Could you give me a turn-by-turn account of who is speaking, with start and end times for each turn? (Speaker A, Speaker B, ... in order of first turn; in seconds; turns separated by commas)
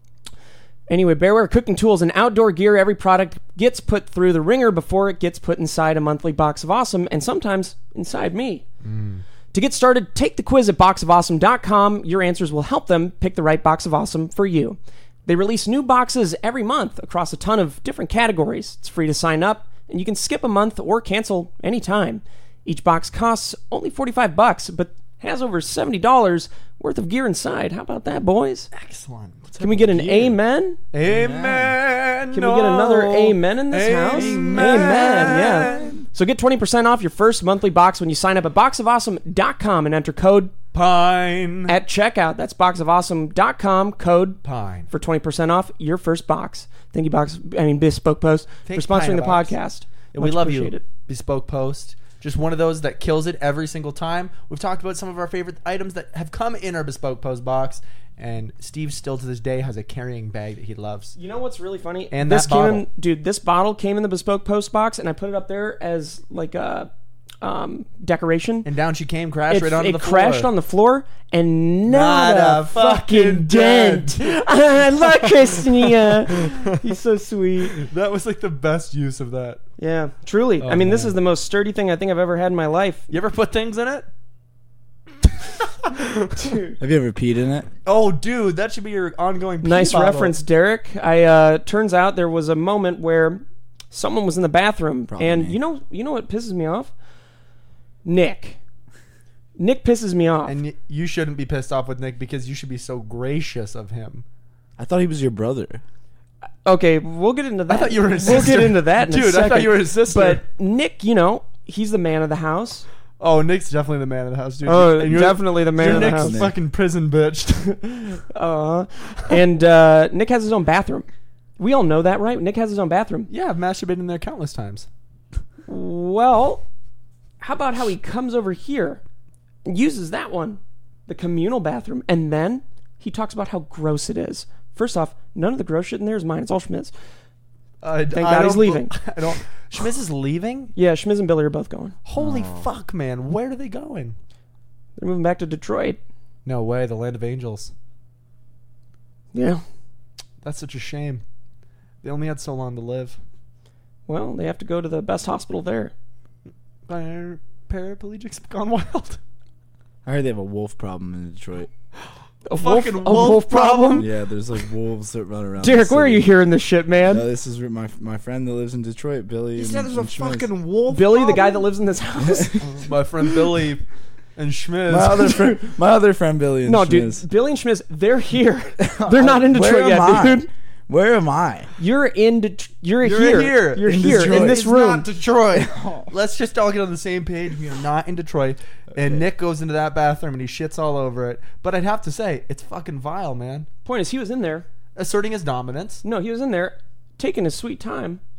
Speaker A: 0.9-8.6, Speaker B: 8.8-9.2, Speaker A: 9.5-28.7, Speaker B: 28.7-30.3, Speaker A: 29.6-30.8, Speaker C: 29.9-30.3, Speaker B: 30.9-36.0, Speaker C: 31.0-31.8, Speaker A: 32.3-40.5, Speaker C: 34.1-36.0, Speaker B: 40.7-41.7, Speaker A: 41.7-44.4, Speaker B: 44.4-44.9, Speaker A: 44.9-50.8, Speaker B: 48.6-49.5, Speaker B: 50.1-61.1, Speaker A: 61.1-66.9, Speaker B: 62.1-62.8, Speaker A: 67.4-68.7, Speaker B: 68.6-70.5, Speaker A: 69.5-77.8, Speaker B: 71.9-74.4, Speaker B: 75.0-76.7, Speaker B: 77.7-79.6, Speaker A: 79.8-83.1, Speaker B: 80.6-81.2, Speaker B: 83.1-84.1, Speaker B: 85.4-86.1, Speaker A: 86.3-86.8, Speaker C: 86.8-87.7, Speaker B: 87.8-90.4, Speaker A: 89.6-96.9, Speaker C: 95.1-95.6, Speaker A: 98.0-98.6, Speaker A: 99.6-100.6, Speaker B: 100.5-104.2, Speaker C: 104.8-105.8, Speaker A: 106.6-112.8, Speaker B: 107.7-110.4, Speaker B: 113.2-118.2, Speaker A: 114.6-116.4, Speaker C: 115.8-116.5, Speaker A: 118.3-121.1, Speaker A: 121.6-123.3, Speaker B: 123.3-124.9, Speaker A: 125.7-126.6, Speaker A: 127.4-129.0, Speaker A: 129.6-136.9, Speaker B: 137.8-140.7, Speaker A: 138.1-139.4, Speaker A: 140.7-141.9, Speaker B: 142.0-144.2, Speaker C: 142.2-142.7, Speaker A: 145.0-146.0, Speaker B: 146.4-147.7, Speaker A: 149.3-149.6, Speaker B: 150.4-151.2, Speaker B: 152.0-153.2, Speaker A: 154.1-155.9, Speaker B: 156.9-159.2, Speaker C: 160.0-161.7, Speaker A: 162.4-164.0, Speaker B: 162.5-164.1, Speaker C: 163.9-166.3, Speaker A: 165.6-167.3, Speaker C: 167.1-170.5, Speaker B: 169.5-171.7, Speaker A: 170.9-172.6, Speaker C: 172.2-173.4, Speaker B: 172.7-175.5, Speaker C: 174.9-177.2, Speaker A: 176.6-180.5, Speaker C: 178.8-181.7, Speaker A: 181.8-185.1, Speaker B: 183.0-193.7, Speaker C: 183.8-184.6, Speaker C: 185.5-186.1, Speaker A: 193.8-194.7, Speaker B: 194.9-196.0, Speaker A: 196.0-198.2